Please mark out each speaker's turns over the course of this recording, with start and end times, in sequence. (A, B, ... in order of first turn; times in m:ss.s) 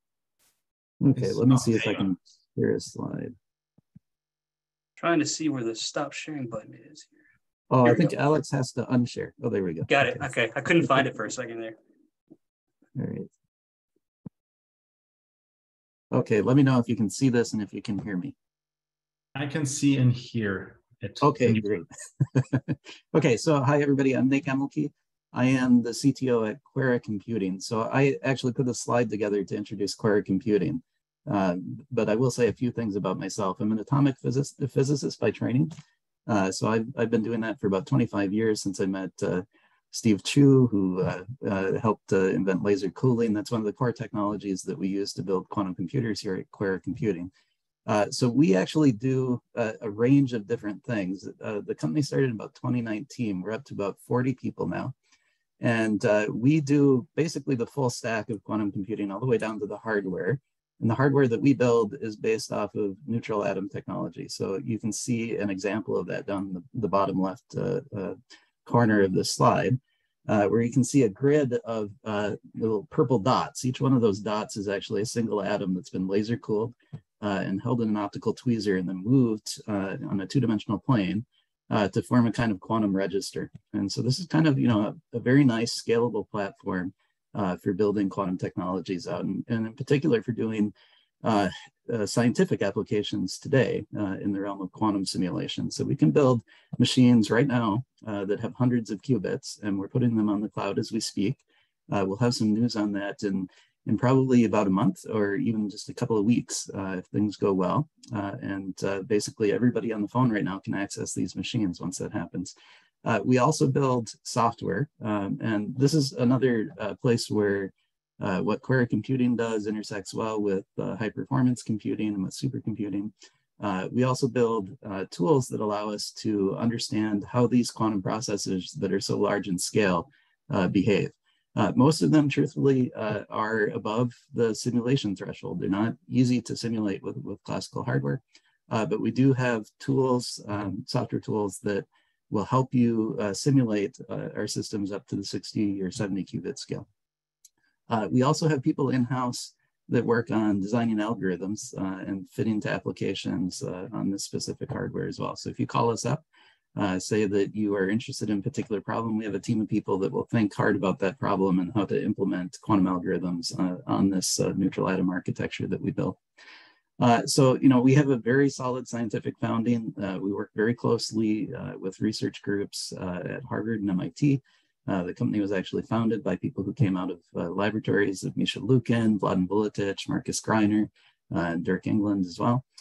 0:01.0-0:03.4 A
0:01.2-0:01.9 B
0:05.0-0:07.2 C
0:07.7-0:10.3 A
0:07.8-0:08.1 C
0:09.9-0:11.8 C
0:13.0-0:13.3 A
0:16.1-0:18.4 A
0:19.4-0:21.6 B
0:21.2-0:35.7 A
0:36.3-0:47.3 A
0:47.9-0:54.9 A
0:55.6-1:30.7 A
1:31.2-1:52.5 A
1:53.0-2:26.9 A
2:27.9-2:36.2 A
2:36.8-2:46.2 A
2:47.0-3:02.6 A